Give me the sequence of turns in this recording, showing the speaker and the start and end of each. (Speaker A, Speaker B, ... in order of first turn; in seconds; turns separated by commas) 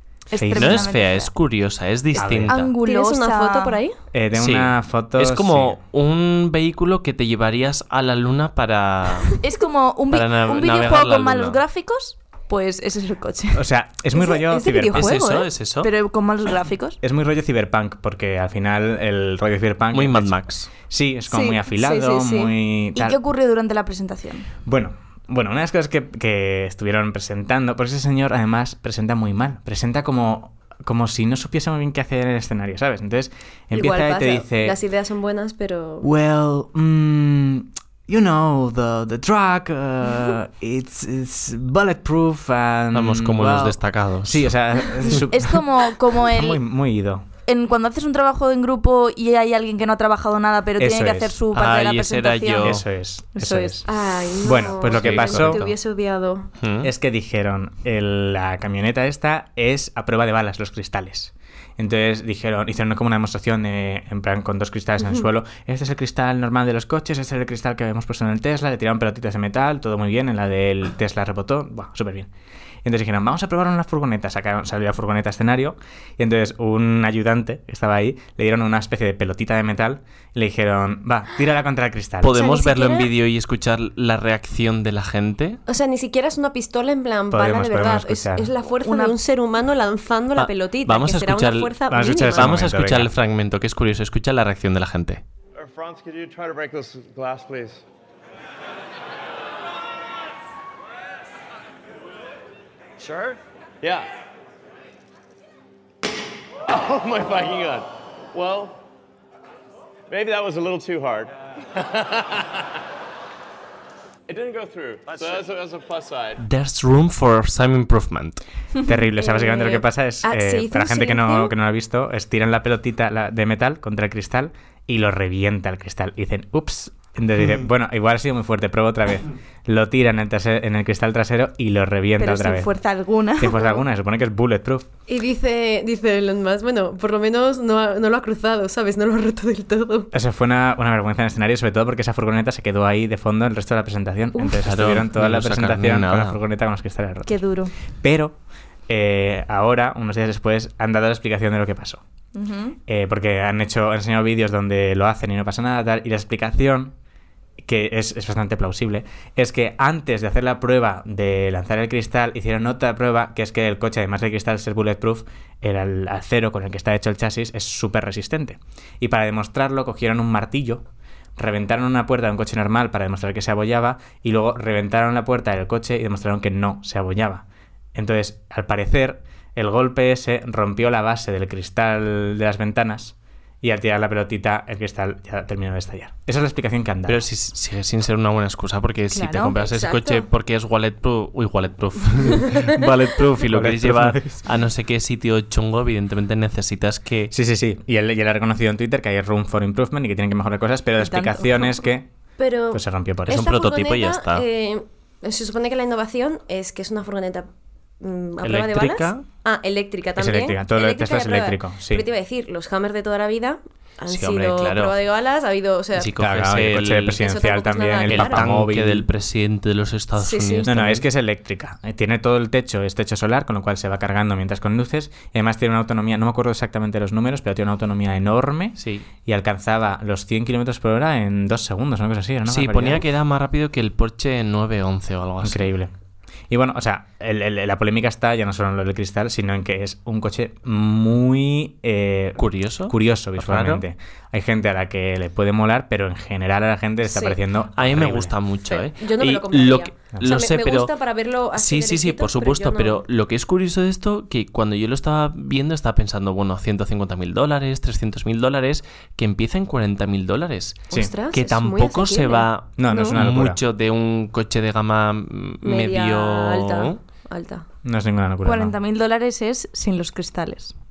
Speaker A: 0.3-1.3, Speaker B: 0.4-0.9, Speaker C: 0.5-2.7, Speaker B: 2.2-2.6, Speaker A: 2.5-3.8, Speaker D: 2.8-4.0, Speaker B: 4.1-5.8, Speaker C: 4.3-9.4, Speaker A: 9.4-17.0, Speaker C: 10.1-11.6, Speaker B: 13.5-15.2, Speaker D: 14.2-15.1, Speaker C: 14.9-15.9, Speaker B: 17.0-23.2, Speaker C: 19.9-20.7, Speaker A: 21.3-21.6, Speaker D: 21.7-22.5, Speaker A: 22.9-24.5, Speaker B: 24.6-34.8, Speaker D: 33.7-36.1, Speaker B: 36.0-45.6, Speaker C: 42.9-44.5, Speaker A: 45.1-46.6, Speaker B: 46.2-47.3, Speaker A: 47.4-52.8, Speaker B: 50.8-51.4, Speaker C: 51.5-52.8, Speaker B: 52.6-53.9, Speaker A: 53.3-53.8, Speaker D: 53.9-56.5, Speaker B: 54.4-55.7, Speaker C: 55.0-55.6, Speaker C: 56.6-56.9, Speaker B: 56.8-72.3, Speaker B: 72.8-82.4, Speaker C: 82.2-85.6, Speaker D: 82.2-83.1, Speaker D: 85.7-92.5, Speaker B: 87.3-88.5, Speaker A: 88.8-89.1, Speaker C: 90.3-95.2, Speaker B: 91.9-93.1, Speaker E: 95.5-97.8, Speaker E: 103.0-104.1, Speaker E: 106.7-108.8, Speaker E: 110.1-112.5, Speaker E: 114.3-116.4, Speaker C: 116.4-118.4, Speaker B: 118.8-132.7, Speaker D: 119.2-121.5, Speaker A: 132.2-133.6, Speaker B: 133.4-134.8, Speaker D: 135.1-140.1, Speaker B: 140.1-147.4, Speaker C: 144.6-146.4, Speaker A: 147.3-147.7, Speaker B: 147.9-148.3, Speaker B: 148.9-152.0, Speaker A: 152.3-152.8, Speaker B: 152.9-156.9, Speaker B: 157.6-170.8, Speaker B: 171.3-187.2, Speaker C: 187.1-197.3, Speaker A: 189.1-189.6, Speaker D: 189.5-190.3, Speaker D: 192.3-192.8, Speaker B: 193.5-194.4, Speaker B: 197.3-202.1, Speaker A: 201.0-201.8, Speaker D: 202.4-207.5, Speaker B: 202.7-203.4, Speaker C: 203.3-204.4, Speaker D: 208.0-216.1, Speaker C: 208.4-209.2, Speaker B: 210.2-212.0, Speaker C: 214.1-214.9, Speaker C: 216.0-217.2, Speaker B: 216.2-219.1, Speaker D: 217.2-218.5, Speaker C: 218.1-221.1, Speaker D: 220.2-220.7, Speaker B: 220.7-233.1, Speaker C: 228.8-229.1, Speaker C: 232.5-235.6, Speaker B: 235.4-235.9, Speaker B: 236.5-248.3, Speaker C: 242.4-243.8, Speaker D: 247.1-247.4, Speaker C: 247.8-250.9, Speaker D: 248.7-253.0, Speaker C: 251.5-267.0, Speaker D: 260.9-263.2, Speaker B: 262.8-263.6, Speaker D: 265.6-267.6, Speaker B: 267.8-268.8, Speaker A: 268.4-270.7